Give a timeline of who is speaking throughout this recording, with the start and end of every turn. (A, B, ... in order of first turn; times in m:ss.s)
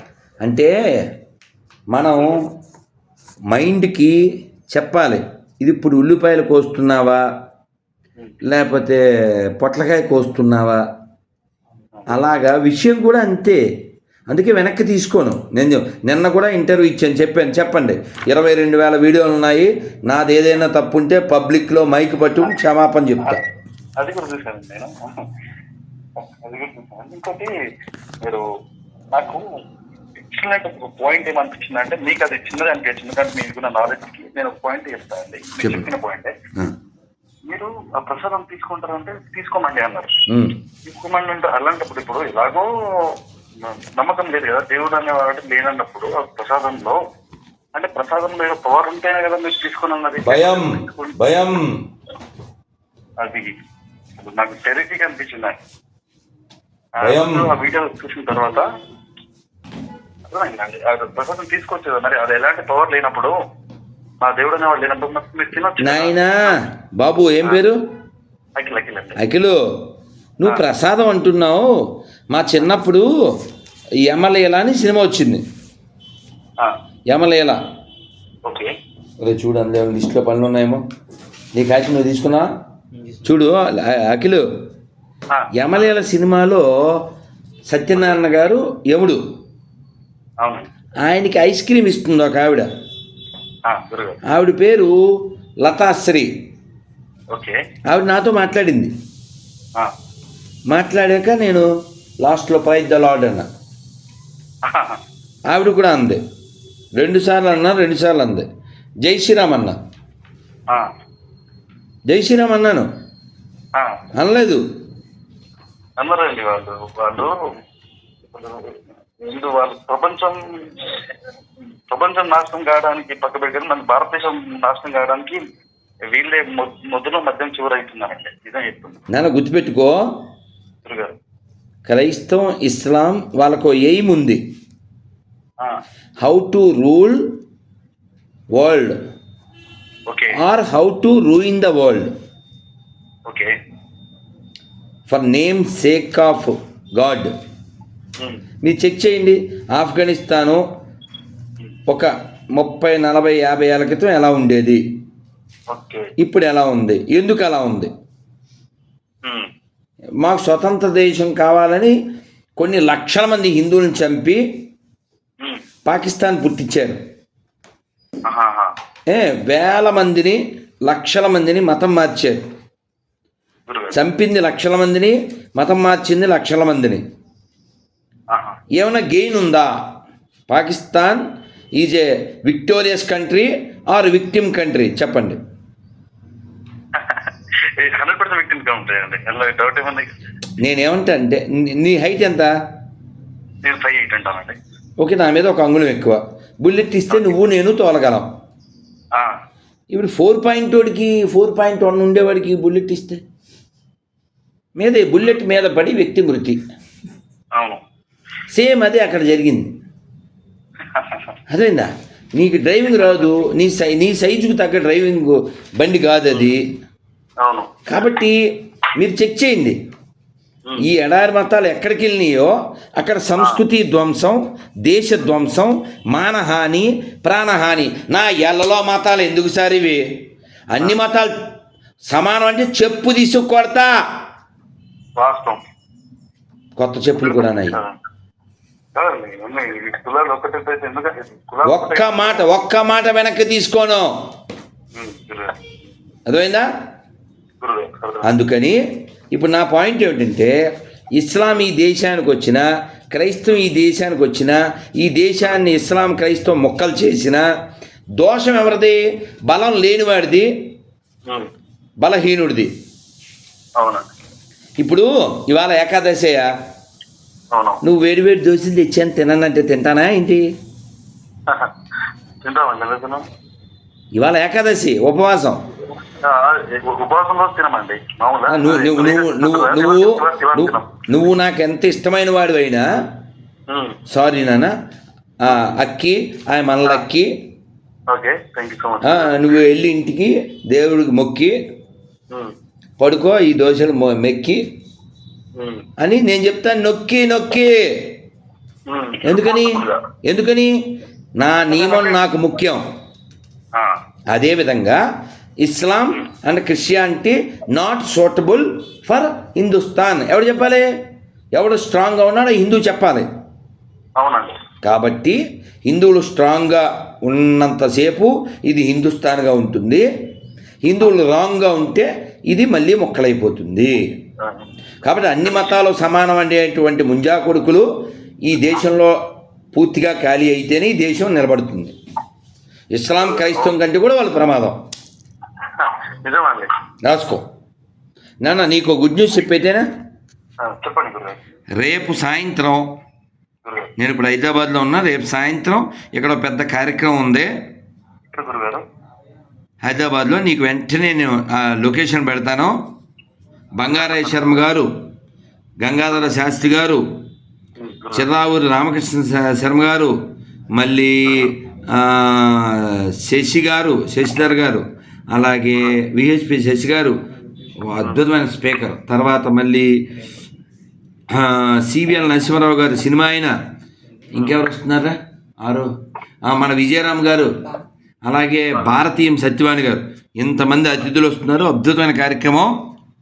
0:00.4-0:01.1 A
0:01.9-0:02.4 A
0:03.5-0:04.1 A
0:04.7-0:07.2 A
0:08.4-0:09.0 A
0:09.6-0:10.8 A
0:12.1-0:13.6 A
0:14.3-0:23.4 A
0:24.0-0:25.2 B
0:26.2-0:27.5 B
0:29.1-0:29.4 B
0:30.2-0:36.3 B
0:35.6-0:35.9 A
0:37.5-0:40.1 B
0:40.3-0:40.6 A
0:40.8-0:42.7 B
0:43.6-0:47.0 B
0:47.7-0:51.2 B
0:50.2-0:51.7 A
0:53.2-0:53.5 B
0:54.2-0:55.6 B
0:57.0-0:58.7 B
0:57.0-0:57.5 A
1:00.3-1:03.3 B
1:04.2-1:06.6 B
1:05.8-1:07.8 A
1:08.6-1:09.2 B
1:09.2-1:09.6 A
1:10.4-1:11.7 A
1:12.3-1:13.1 A
1:14.1-1:15.4 A
1:17.1-1:17.6 A
1:18.4-1:18.7 B
1:19.2-1:20.8 A
1:21.5-1:22.5 A
1:23.2-1:24.4 A
1:25.6-1:27.0 A
1:27.7-1:29.2 A
1:31.0-1:32.7 A
1:33.7-1:34.2 B
1:34.3-1:34.9 A
1:35.6-1:36.3 A
1:37.9-1:38.9 A
1:40.7-1:41.7 A
1:42.2-1:43.5 A
1:44.6-1:45.0 B
1:45.5-1:46.2 A
1:47.0-1:48.4 A
1:49.0-1:49.8 A
1:52.1-1:52.9 A
1:54.2-1:54.6 A
1:56.0-1:57.4 B
1:58.3-2:01.0 B
2:01.9-2:05.4 B
2:06.1-2:09.0 B
2:09.1-2:10.0 A
2:10.8-2:11.2 B
2:11.9-2:14.4 A
2:16.2-2:17.3 A
2:18.6-2:19.0 A
2:20.1-2:20.4 B
2:20.4-2:22.1 A
2:25.1-2:27.3 A
2:28.6-2:30.6 A
2:31.9-2:34.8 A
2:35.7-2:36.1 B
2:36.2-2:37.9 A
2:40.2-2:42.0 A
2:42.6-2:44.4 A
2:45.8-2:47.0 A
2:48.3-2:48.7 B
2:49.1-2:52.4 A
2:53.7-2:54.0 B
2:53.9-2:57.0 A
2:58.3-2:58.6 B
2:58.8-2:59.7 A
3:00.5-3:01.2 A
3:01.8-3:05.4 A
3:06.9-3:10.1 B
3:10.6-3:12.5 A
3:13.6-3:14.6 B
3:15.0-3:18.3 A
3:19.9-3:23.2 A
3:24.8-3:26.6 A
3:28.5-3:29.7 A
3:30.9-3:31.2 B
3:31.5-3:36.7 A
3:32.9-3:33.3 B
3:37.4-3:37.7 B
3:37.9-3:38.4 A
3:38.9-3:39.8 A
3:40.8-3:50.0 A
3:50.7-3:51.3 A
3:52.1-3:53.9 A
3:55.2-3:55.6 B
3:56.8-3:57.8 A
3:57.2-3:57.9 B
3:58.9-4:02.4 B
4:01.6-4:04.1 A
4:04.9-4:05.6 B
4:06.3-4:06.7 A
4:07.6-4:08.3 B
4:08.2-4:08.8 A
4:09.3-4:10.5 A
4:11.2-4:17.4 A
4:18.2-4:20.5 A
4:22.0-4:22.7 A
4:23.8-4:24.0 B
4:24.8-4:26.5 A
4:27.5-4:27.8 B
4:27.8-4:30.4 A
4:31.5-4:31.7 B
4:32.4-4:33.2 B
4:34.2-4:35.6 A
4:36.2-4:41.0 B
4:38.5-4:42.9 A
4:43.7-4:44.0 B
4:44.1-4:44.7 A
4:45.4-4:47.3 A
4:48.1-4:49.3 B
4:49.0-4:51.5 A
4:53.0-4:54.6 A
4:55.6-4:55.8 B
4:56.0-4:58.1 A
4:58.9-5:00.0 B
4:59.2-5:00.7 A
5:01.4-5:02.8 A
5:01.7-5:02.2 B
5:04.3-5:05.0 A
5:05.6-5:10.9 A
5:11.6-5:13.3 A
5:14.2-5:14.6 B
5:14.8-5:20.0 A
5:20.8-5:24.0 A
5:24.4-5:24.7 B
5:25.0-5:27.9 A
5:28.4-5:29.2 A
5:29.7-5:31.9 A
5:32.9-5:34.8 A
5:33.2-5:33.7 B
5:35.7-5:36.7 B
5:37.0-5:37.4 A
5:38.4-5:39.8 A
5:40.6-5:41.4 B
5:41.8-5:42.9 A
5:43.6-5:43.9 B
5:44.0-5:47.5 A
5:48.3-5:48.8 B
5:49.8-5:52.7 A
5:53.8-5:54.9 A
5:53.9-5:54.5 B
5:55.8-5:57.0 A
5:57.8-5:58.3 B
5:58.1-6:00.1 A
6:00.8-6:07.2 A
6:07.8-6:09.9 A
6:11.3-6:13.5 A
6:14.3-6:15.9 A
6:14.3-6:14.6 B
6:16.5-6:17.5 A
6:18.2-6:22.7 A